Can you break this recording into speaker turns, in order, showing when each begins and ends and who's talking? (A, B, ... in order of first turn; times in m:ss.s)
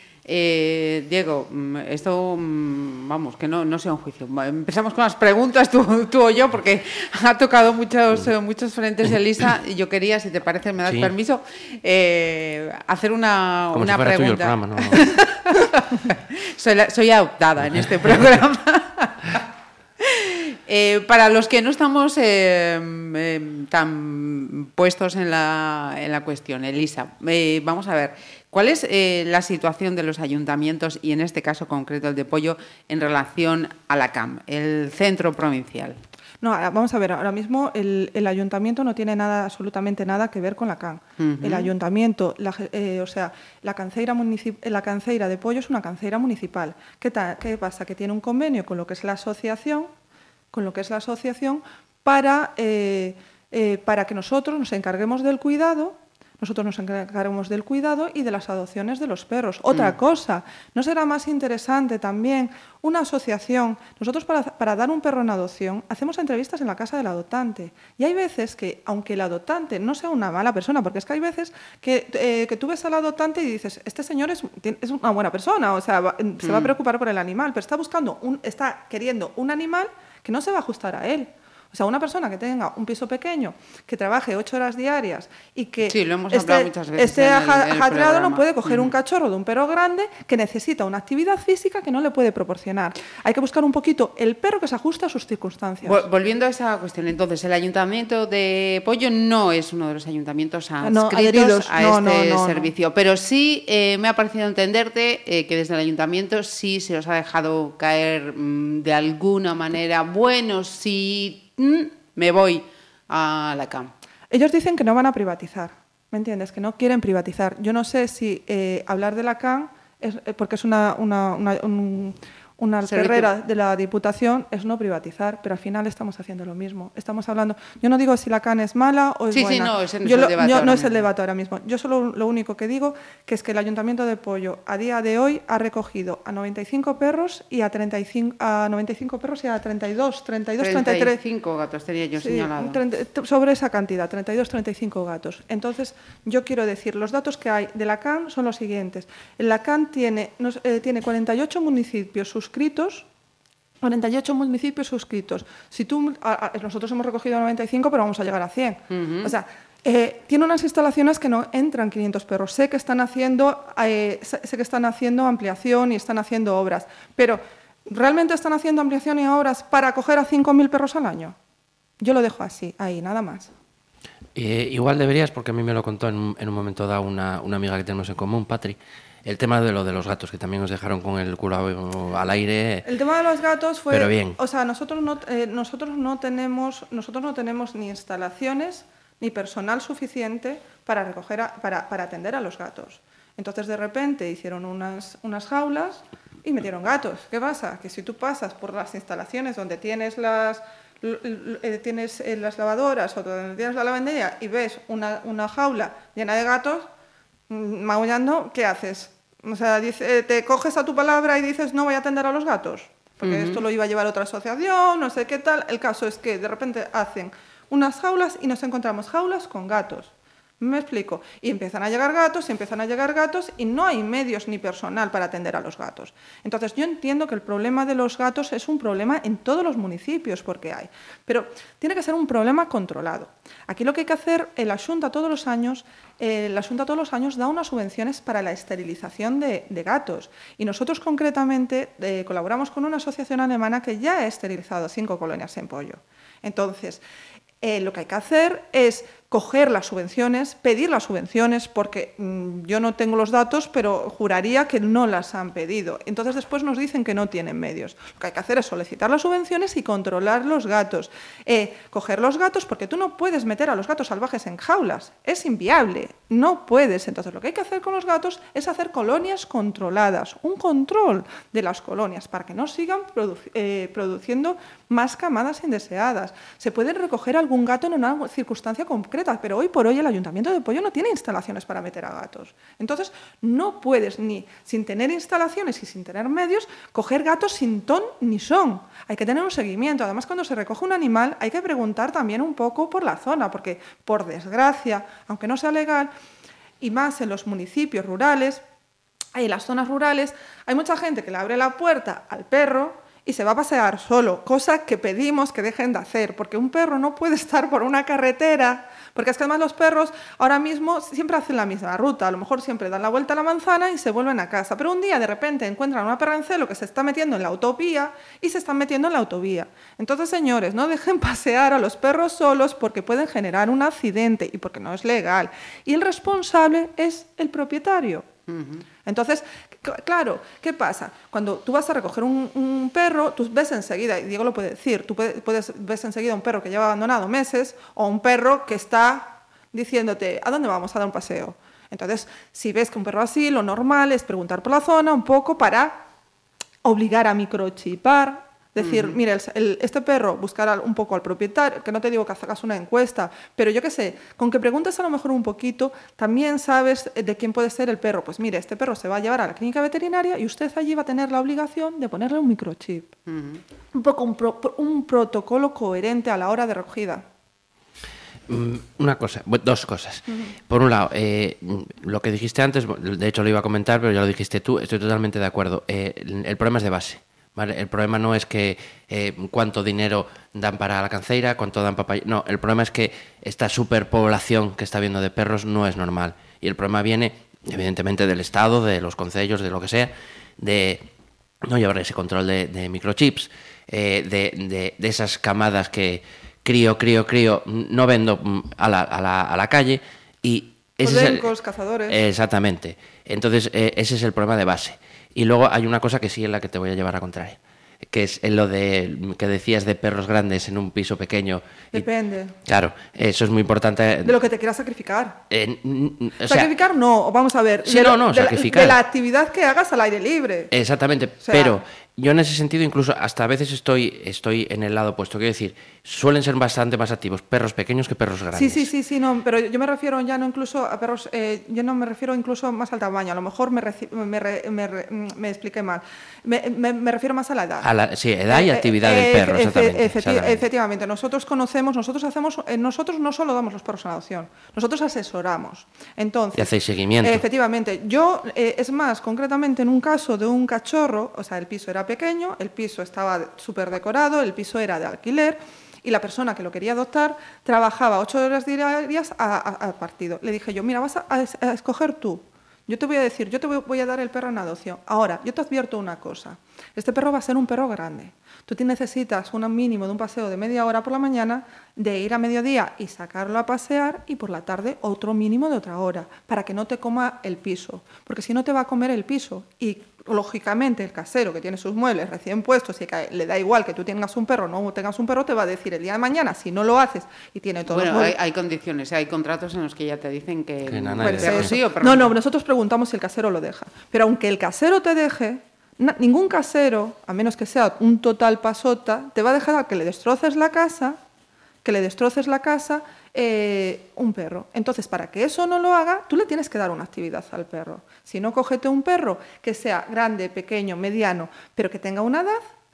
0:00.2-0:19.4 A
0:10.8-0:11.1 B
0:13.7-0:15.0 B
0:20.0-0:36.0 A
0:36.4-0:49.9 C
0:41.2-0:41.7 A
0:50.5-1:36.0 C
1:16.4-1:16.7 A
1:25.9-1:28.9 A
1:35.8-1:53.9 A
1:40.8-1:42.7 C
1:54.3-2:21.2 C
2:02.8-2:03.3 A
2:09.3-2:11.0 A
2:20.6-2:22.8 A
2:22.2-2:33.0 C
2:33.8-2:51.4 C
2:38.9-2:39.3 A
2:52.0-2:53.5 C
2:54.3-3:02.9 B
3:02.8-3:26.9 C
3:03.9-3:04.4 B
3:27.5-4:07.0 C
3:33.2-3:33.6 A
4:07.6-4:56.1 C
4:56.8-4:58.6 C
4:59.3-5:28.3 C
5:28.5-5:28.8 A
5:29.0-5:46.0 C
5:46.8-6:03.1 C
5:48.8-5:49.2 A
6:03.3-6:03.6 A
6:03.9-6:07.2 C
6:08.5-6:31.1 B
6:31.6-6:41.5 B
6:41.0-6:42.2 C
6:42.1-6:52.1 B
6:51.9-6:52.6 C
6:52.6-6:54.4 B
6:54.2-6:55.4 C
6:55.5-6:56.7 B
6:56.4-7:00.7 C
6:57.8-6:59.0 B
7:00.7-7:08.9 B
7:01.4-7:01.8 C
7:08.5-7:17.9 C
7:17.8-7:20.6 B
7:18.5-7:26.7 C
7:26.6-7:27.4 B
7:27.2-8:08.4 C
8:07.9-8:12.3 A
8:10.9-8:11.8 B
8:11.2-8:21.2 C
8:21.8-8:32.6 C